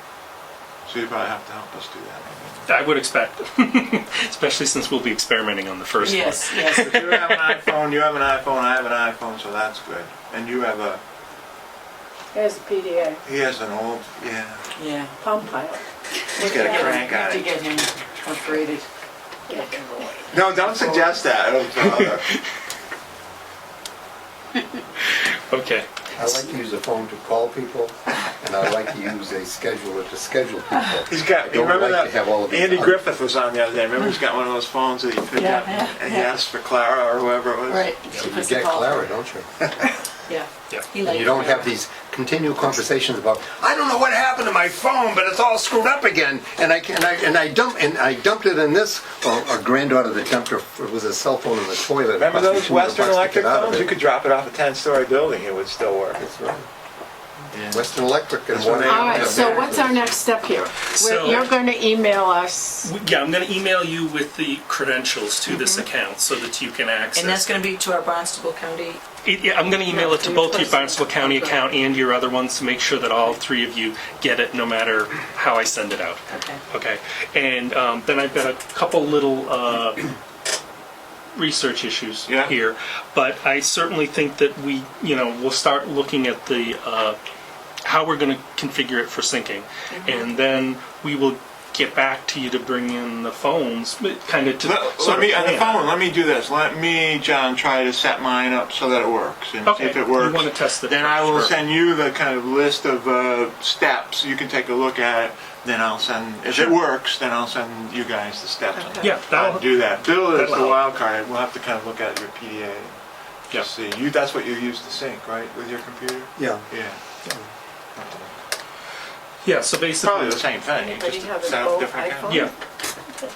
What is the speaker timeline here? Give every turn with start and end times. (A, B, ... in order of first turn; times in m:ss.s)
0:00.8-0:02.7 A
0:02.7-0:07.6 B
0:06.0-0:06.9 C
0:06.6-0:11.0 A
0:12.3-0:13.2 D
0:13.2-0:14.6 A
0:14.8-0:15.1 C
0:15.2-0:17.1 D
0:16.4-0:17.5 A
0:16.4-0:18.8 C
0:19.5-0:19.8 D
0:19.6-0:20.1 C
0:20.3-0:22.2 A
0:21.8-0:22.4 B
0:25.0-0:25.9 B
0:26.1-0:33.0 E
0:30.7-0:31.0 C
0:31.1-0:37.9 A
0:35.3-0:36.4 C
0:37.7-0:39.1 C
0:38.1-0:39.5 E
0:40.2-0:41.7 C
0:41.0-0:54.0 E
0:52.2-0:56.2 A
0:56.2-0:56.7 E
0:57.5-0:57.9 A
0:57.7-1:00.2 E
0:58.5-0:59.6 A
0:58.8-1:02.9 D
0:59.2-0:59.7 C
1:00.9-1:01.5 B
1:02.8-1:07.6 B
1:05.5-1:05.8 C
1:07.2-1:09.0 C
1:09.2-1:20.1 B
1:09.9-1:11.6 C
1:16.3-1:16.6 C
1:21.3-1:27.2 B
1:22.3-1:22.5 A
1:27.8-1:35.9 B
1:29.9-1:30.2 C
1:34.6-1:53.0 A
1:39.6-1:41.6 B
1:48.8-1:49.1 D
1:49.0-1:50.9 B
1:53.5-1:57.0 A
1:56.4-1:56.7 E
1:58.0-1:58.3 A
1:59.4-2:00.6 B
2:00.0-2:02.5 A
2:00.7-2:02.5 D
2:02.3-2:02.5 B